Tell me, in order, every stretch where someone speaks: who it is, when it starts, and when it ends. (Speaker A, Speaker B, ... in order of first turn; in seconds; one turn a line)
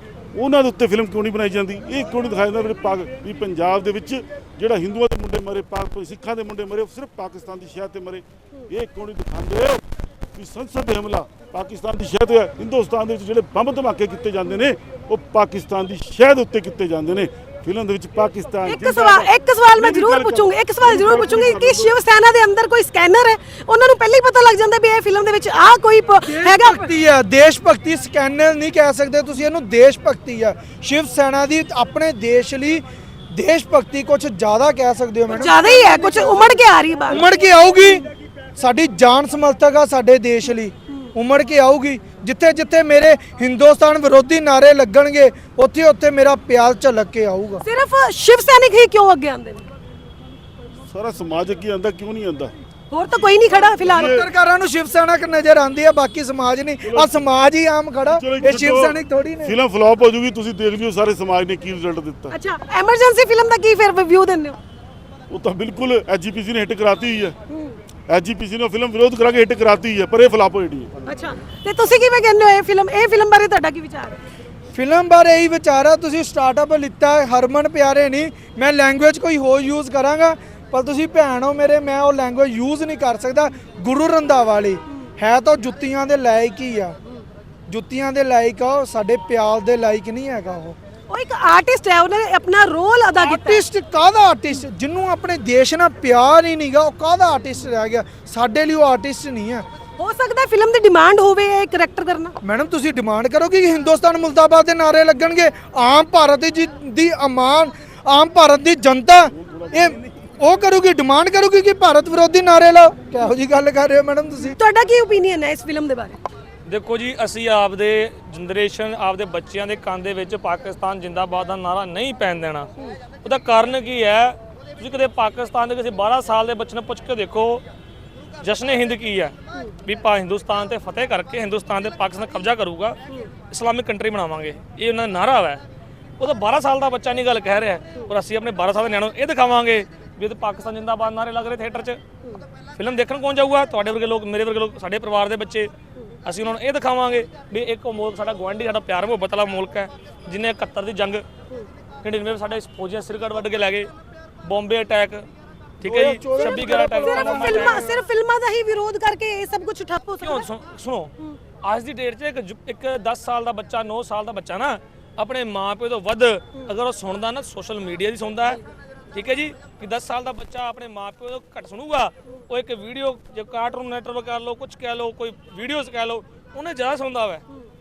Speaker A: 0.3-9.8
Speaker A: 10.3-21.9
Speaker B: 18.6-26.9
Speaker C: 26.2-47.6
Speaker B: 35.3-37.3
Speaker B: 47.6-49.6
Speaker A: 50.9-52.5
Speaker B: 52.9-54.2
Speaker A: 53.1-54.3
Speaker C: 53.9-59.5
Speaker A: 56.8-57.2
Speaker A: 58.0-62.4
Speaker B: 62.3-64.6
Speaker A: 65.3-67.3
Speaker B: 67.5-67.8
Speaker A: 68.1-70.9
Speaker B: 71.0-74.2
Speaker C: 74.7-87.0
Speaker C: 87.7-90.8
Speaker B: 91.1-93.7
Speaker C: 93.2-99.7
Speaker B: 100.0-102.3
Speaker C: 102.4-114.6
Speaker A: 109.5-110.0
Speaker B: 114.5-116.2
Speaker D: 116.7-122.7
Speaker D: 123.2-127.6
Speaker D: 128.4-135.6
Speaker D: 136.2-142.0
Speaker D: 142.8-145.7
Speaker D: 146.2-151.2
Speaker D: 152.0-153.9
Speaker D: 154.4-155.3
Speaker D: 155.8-157.9
Speaker C: 155.8-158.0
Speaker B: 156.4-160.5
Speaker D: 160.2-177.4